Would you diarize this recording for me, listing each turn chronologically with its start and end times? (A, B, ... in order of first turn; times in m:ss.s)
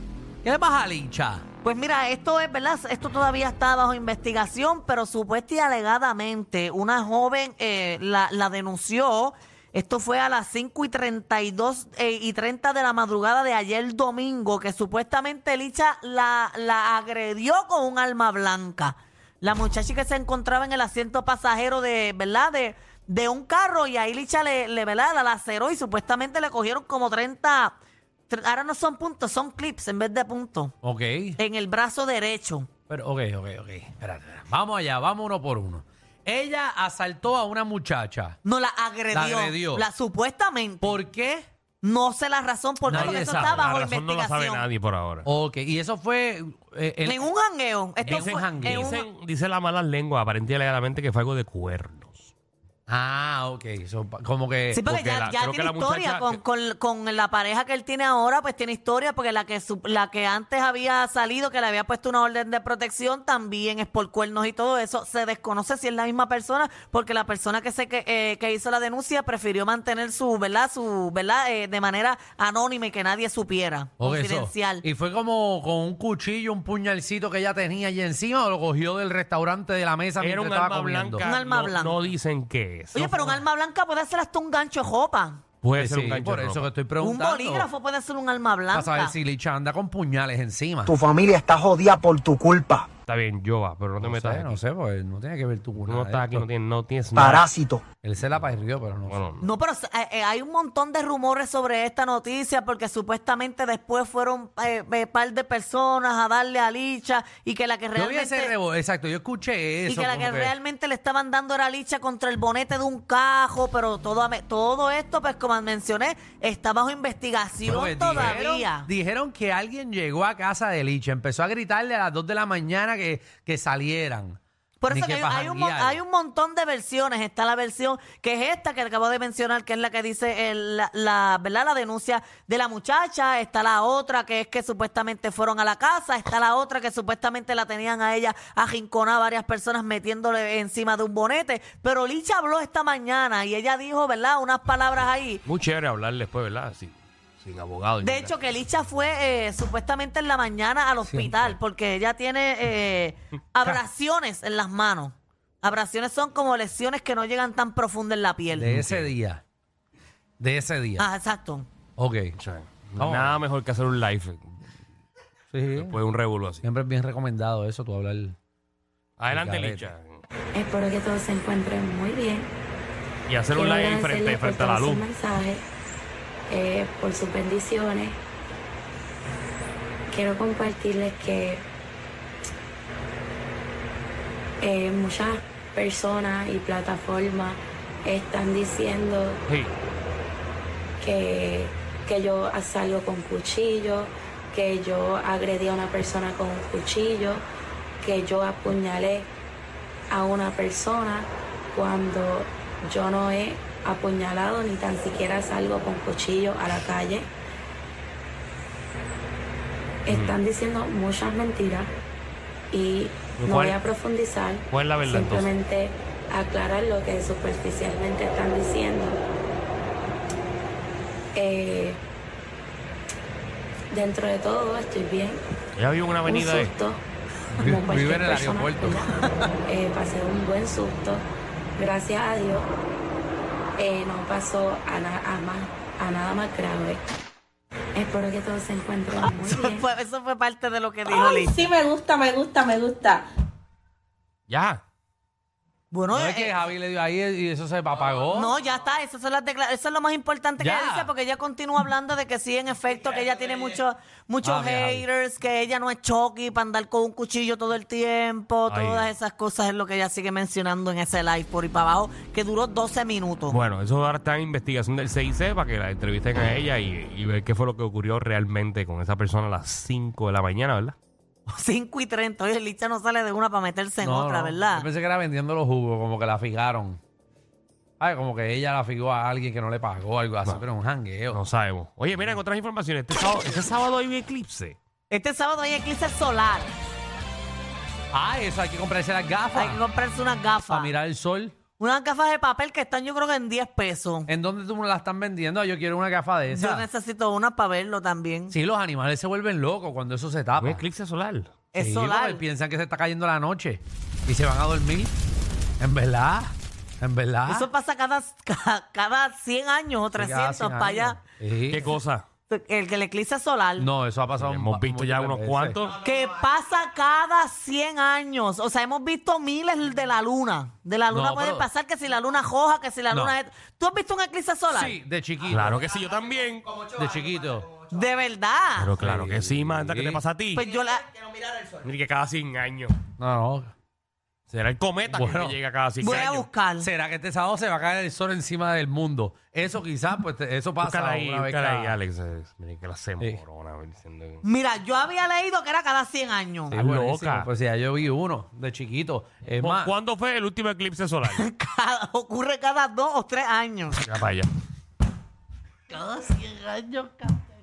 0:00.4-0:01.4 A
0:01.6-0:27.8 B
0:28.3-0:30.7 B
0:30.8-0:31.4 A
0:31.4-0:32.7 B
0:32.9-0:38.4 A
0:38.4-0:41.0 B
0:39.1-0:39.8 A
0:40.8-0:41.5 A
0:41.8-0:44.6 B
0:42.9-0:43.7 A
0:42.9-0:45.2 C
0:45.2-0:47.2 A
0:47.0-0:49.0 B
0:48.0-0:49.0 A
0:48.0-0:52.3 C
0:52.9-0:54.8 A
0:54.7-1:14.8 B
0:54.8-0:56.4 C
1:14.0-1:21.2 A
1:20.2-1:23.4 C
1:21.2-1:22.0 B
1:22.9-1:25.4 B
1:25.6-1:26.7 C
1:25.8-1:27.7 A
1:27.0-1:29.1 B
1:28.7-1:31.0 A
1:30.9-1:32.9 D
1:33.1-1:34.6 C
1:34.0-1:36.4 A
1:35.9-1:37.5 C
1:37.2-1:37.8 D
1:38.0-1:39.2 A
1:39.1-1:39.5 C
1:39.4-1:48.5 B
1:47.9-1:50.5 A
1:49.8-1:58.9 B
1:57.6-2:04.4 A
2:04.8-2:25.4 B
2:04.9-2:06.0 A
2:25.4-2:28.3 C
2:28.0-2:38.7 B
2:31.0-2:31.5 A
2:38.5-2:39.4 A
2:38.6-2:39.1 C
2:40.4-2:41.1 A
2:41.0-2:41.7 B
2:42.0-2:42.3 A
2:42.4-2:44.5 C
2:43.0-2:43.4 A
2:45.5-2:46.0 A
2:45.7-2:46.6 C
2:46.6-2:48.4 A
2:49.2-2:50.2 C
2:49.3-2:49.9 A
2:50.5-2:52.5 E
2:53.3-2:55.1 C
2:53.5-2:55.6 E
2:56.5-2:58.2 E
3:00.1-3:01.6 E
3:04.6-3:09.4 E
3:09.5-3:09.7 C
3:11.0-3:17.4 E
3:18.0-3:19.3 E
3:20.1-3:27.3 E
3:30.0-3:31.9 E
3:30.1-3:30.4 C
3:32.7-3:39.2 E
3:33.4-3:33.8 C
3:34.7-3:35.5 C
3:41.3-3:42.0 E
3:43.9-3:45.4 E
3:45.8-3:46.7 C
3:46.2-3:47.0 E
3:47.5-3:49.1 A
3:47.6-3:49.0 E
3:49.7-3:52.7 E
3:53.8-3:57.0 E
3:57.9-3:59.8 E
3:59.2-4:01.7 B
4:01.1-4:03.2 F
4:04.5-4:04.8 C
4:05.9-4:06.6 B
4:06.1-4:08.5 A
4:08.3-4:23.6 B
4:10.6-4:11.1 A
4:14.4-4:15.0 A
4:18.7-4:19.1 C
4:23.5-4:31.0 C
4:31.5-4:34.9 B
4:34.0-4:37.0 A
4:38.0-4:41.4 A
4:41.3-4:44.8 C
4:45.1-4:46.7 B
4:48.1-4:49.8 A
4:49.5-4:50.9 B
4:50.7-4:51.6 A
4:51.8-4:54.3 B
4:54.3-4:56.9 A
4:56.5-4:58.5 B
4:58.5-5:00.8 A
5:00.6-5:01.5 C
5:01.7-5:02.4 B
5:01.8-5:05.1 A
5:05.8-5:07.7 A
5:07.5-5:11.2 B
5:10.1-5:11.9 A
5:11.7-5:12.2 C
5:12.5-5:13.9 B
5:13.8-5:15.8 A
5:14.4-5:16.0 C
5:15.9-5:25.0 B
5:21.1-5:21.7 A
5:23.1-5:23.4 A
5:24.7-5:25.8 A
5:25.4-5:26.7 C
5:26.9-5:27.7 A
5:27.8-5:28.9 B
5:28.8-5:30.7 C
5:29.0-5:30.2 A
5:30.5-5:31.0 B
5:31.8-5:32.9 C
5:33.2-5:33.7 A
5:34.5-5:36.5 C
5:35.1-5:36.2 A
5:36.0-5:36.9 B
5:36.8-5:42.0 A
5:40.8-5:44.4 C
5:44.4-5:46.8 B
5:46.7-5:49.9 A
5:46.7-5:47.5 C
5:49.6-5:51.4 C
5:51.3-5:54.0 B
5:54.0-5:54.5 C
5:55.9-5:57.4 A